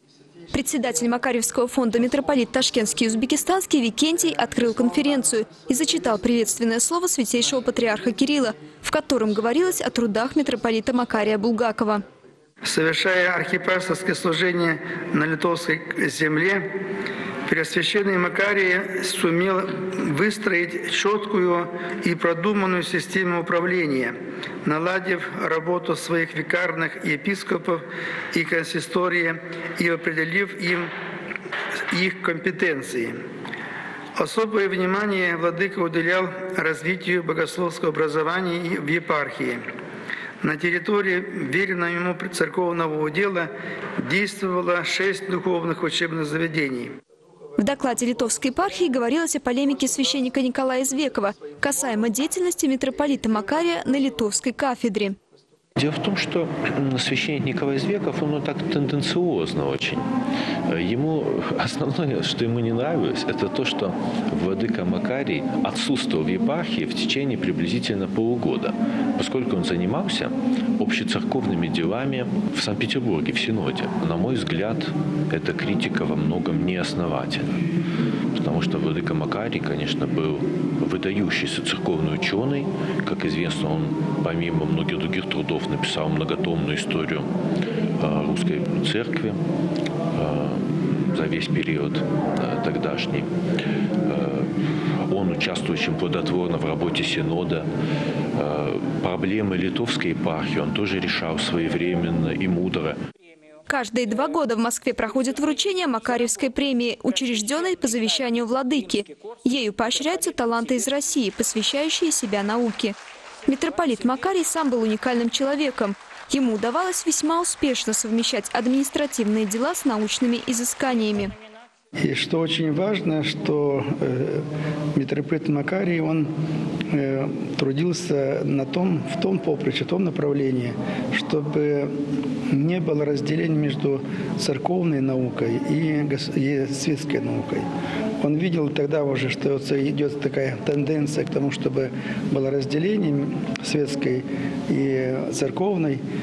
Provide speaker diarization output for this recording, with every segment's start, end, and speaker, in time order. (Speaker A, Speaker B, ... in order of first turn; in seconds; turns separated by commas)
Speaker A: 0.5-12.1, Speaker B: 12.6-16.8, Speaker B: 17.4-30.9, Speaker B: 31.9-33.1, Speaker B: 34.2-39.6, Speaker B: 40.4-46.9, Speaker A: 47.6-55.2, Speaker C: 55.8-60.1, Speaker C: 60.7-77.6, Speaker C: 78.3-87.3, Speaker C: 88.0-89.4, Speaker C: 90.1-93.3, Speaker C: 94.0-94.5, Speaker C: 95.1-97.7, Speaker C: 98.3-103.0, Speaker A: 103.7-121.3, Speaker B: 122.0-126.3, Speaker B: 126.9-131.9, Speaker B: 132.5-137.7, Speaker B: 138.2-146.0